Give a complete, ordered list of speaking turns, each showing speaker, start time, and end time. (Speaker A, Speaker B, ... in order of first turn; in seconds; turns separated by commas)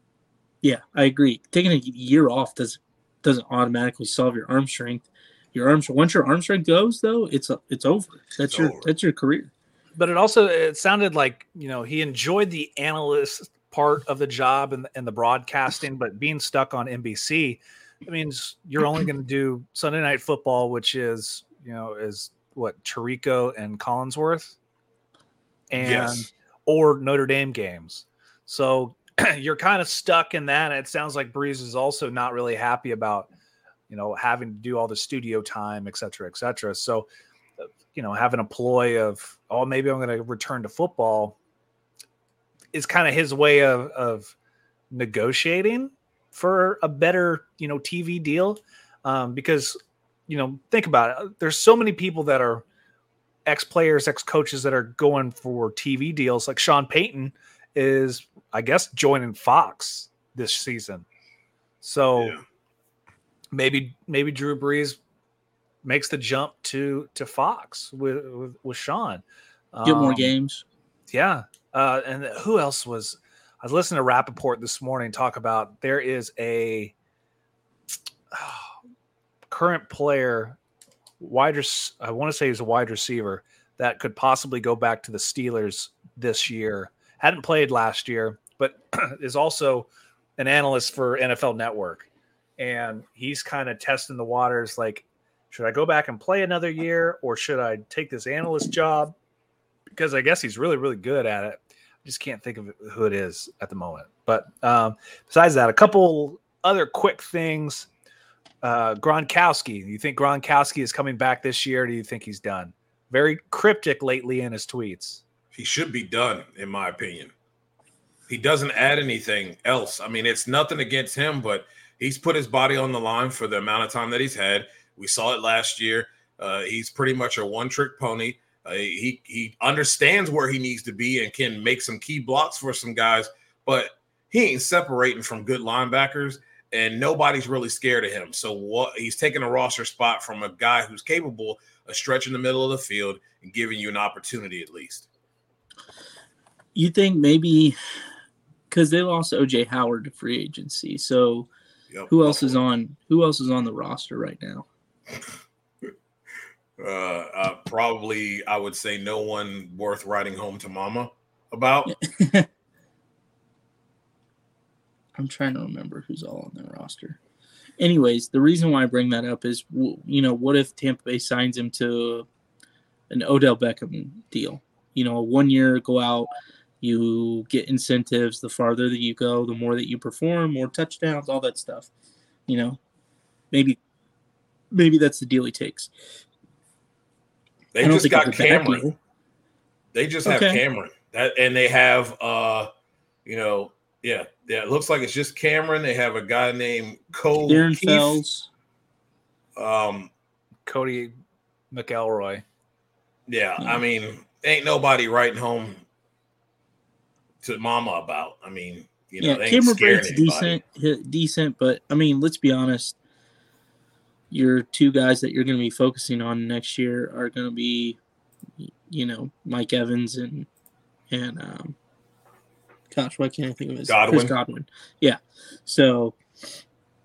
Speaker A: 0.6-9.5, Speaker B: 8.5-8.9, Speaker C: 9.9-24.6, Speaker C: 25.7-33.3, Speaker B: 25.8-26.3, Speaker C: 33.9-37.1, Speaker C: 37.9-41.4, Speaker C: 42.7-44.3, Speaker C: 44.9-49.8, Speaker C: 50.3-52.6, Speaker C: 53.5-61.0, Speaker C: 61.8-62.4, Speaker C: 63.5-65.0, Speaker C: 65.8-70.3, Speaker A: 69.8-70.6, Speaker C: 71.1-76.9, Speaker C: 78.3-78.7, Speaker C: 79.5-80.6, Speaker C: 81.2-92.1, Speaker C: 92.6-99.1, Speaker C: 99.9-107.9, Speaker C: 108.6-115.2, Speaker B: 115.5-117.3, Speaker B: 118.3-145.1, Speaker A: 146.7-147.8, Speaker A: 148.7-151.5, Speaker B: 151.9-152.6, Speaker A: 152.1-154.7, Speaker B: 156.8-161.9, Speaker A: 161.9-162.5, Speaker A: 165.2-167.2, Speaker A: 167.8-172.3, Speaker A: 173.1-176.3, Speaker A: 176.8-181.9, Speaker A: 182.5-182.8, Speaker A: 183.5-183.8, Speaker A: 184.7-185.9, Speaker B: 187.7-188.9, Speaker A: 187.8-188.9, Speaker B: 189.9-192.7, Speaker A: 190.2-190.6, Speaker B: 193.2-197.7, Speaker A: 197.5-198.5, Speaker C: 197.7-198.2, Speaker B: 199.6-200.1, Speaker C: 200.7-201.1, Speaker C: 201.7-202.4, Speaker B: 203.3-205.8, Speaker B: 207.4-210.6, Speaker A: 209.2-213.0, Speaker A: 214.3-218.0, Speaker A: 218.6-220.5, Speaker A: 221.1-221.8, Speaker A: 222.9-226.2, Speaker B: 223.8-224.3